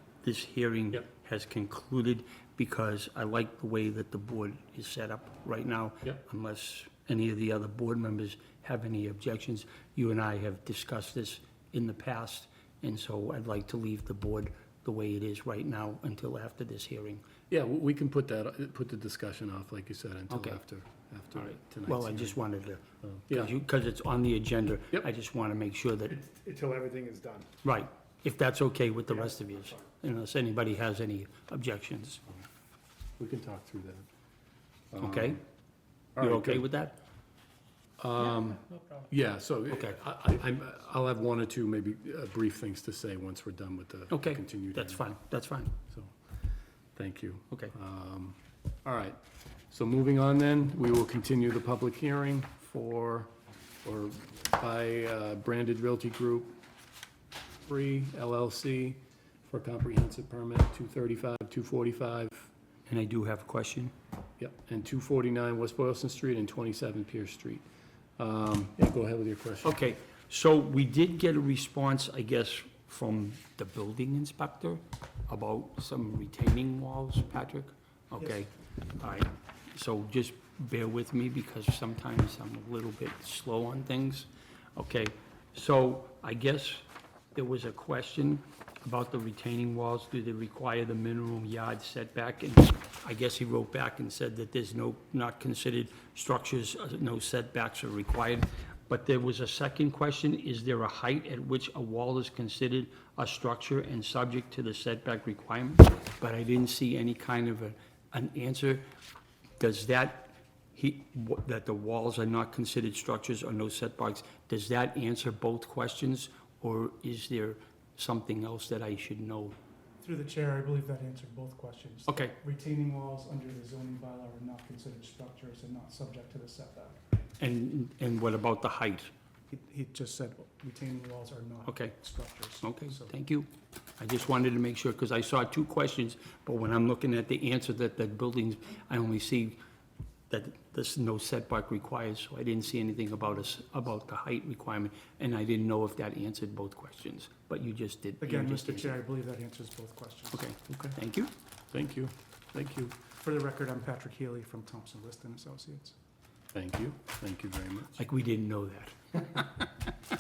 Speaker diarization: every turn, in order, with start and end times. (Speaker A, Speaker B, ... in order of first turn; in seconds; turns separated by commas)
Speaker A: 0.2-17.3, Speaker B: 17.5-22.4, Speaker A: 20.3-20.6, Speaker A: 21.4-26.2, Speaker B: 23.0-23.5, Speaker C: 26.2-27.5, Speaker A: 27.6-32.2, Speaker B: 33.2-34.1, Speaker B: 34.9-35.4, Speaker A: 35.0-35.4, Speaker B: 36.2-36.7, Speaker A: 36.2-37.0, Speaker B: 38.0-45.0, Speaker A: 39.7-40.0, Speaker A: 44.1-45.7, Speaker B: 47.0-49.2, Speaker B: 49.7-53.3, Speaker B: 53.8-56.6, Speaker B: 57.6-62.5, Speaker A: 62.9-63.9, Speaker B: 64.4-67.7, Speaker B: 68.2-69.8, Speaker A: 69.6-108.8, Speaker A: 109.6-119.6, Speaker C: 120.0-127.0, Speaker A: 122.1-122.3, Speaker A: 127.4-129.1, Speaker C: 129.5-133.1, Speaker A: 131.7-139.6, Speaker A: 140.3-149.0, Speaker C: 148.2-150.5, Speaker A: 150.3-151.3, Speaker B: 150.7-151.0, Speaker B: 151.7-153.0, Speaker C: 153.2-155.9, Speaker B: 156.5-158.0, Speaker A: 158.0-159.9